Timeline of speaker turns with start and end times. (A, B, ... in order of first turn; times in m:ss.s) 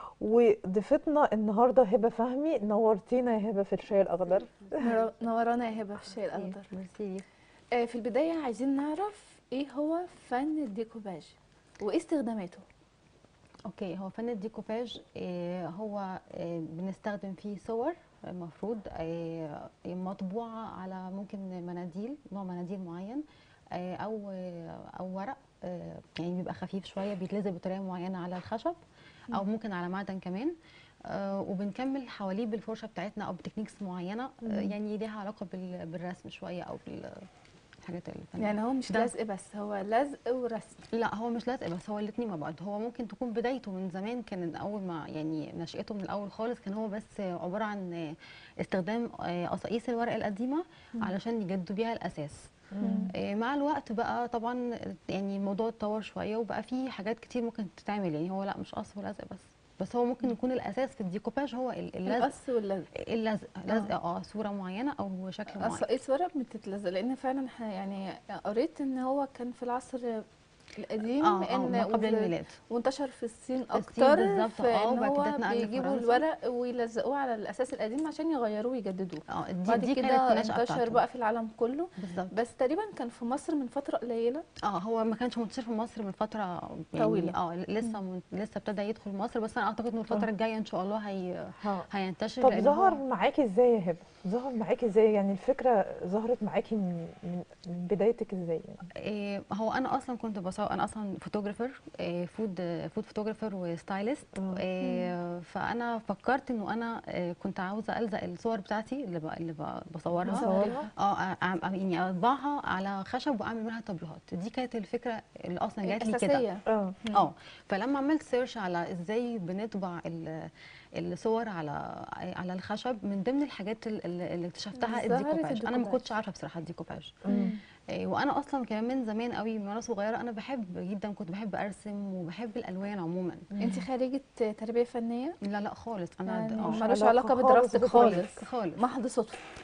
0:00.2-0:04.9 A
0:04.4-0:07.2 B
0:04.8-0:06.7 C
0:07.7-0:12.6 C
0:13.7-0:28.8 B
0:29.3-0:30.5 B
0:31.1-0:37.3 B
0:34.4-0:34.7 A
0:37.8-0:39.1 B
0:38.4-0:40.8 C
0:40.9-0:52.5 B
0:52.7-0:53.1 A
0:52.8-0:53.1 C
0:53.1-1:02.3 B
1:02.1-1:02.9 C
1:02.9-1:05.8 B
1:05.5-1:10.2 C
1:10.8-1:24.4 C
1:11.2-1:12.6 B
1:13.7-1:16.2 B
1:19.3-1:21.0 B
1:22.0-1:22.4 B
1:24.7-1:33.0 B
1:27.0-1:28.0 C
1:31.6-1:31.9 A
1:32.4-1:38.9 A
1:39.0-1:56.4 B
1:44.4-1:44.6 A
1:44.8-1:45.1 C
1:50.3-1:50.9 A
1:50.3-1:50.9 C
1:55.8-1:57.3 C
1:56.7-1:56.9 A
1:57.1-2:07.2 B
2:04.8-2:06.1 C
2:07.2-2:07.5 A
2:07.3-2:07.6 C
2:08.0-2:13.5 B
2:13.5-2:13.8 A
2:13.6-2:15.4 C
2:15.4-2:16.8 B
2:16.3-2:19.4 C
2:16.6-2:18.2 A
2:18.0-2:18.8 B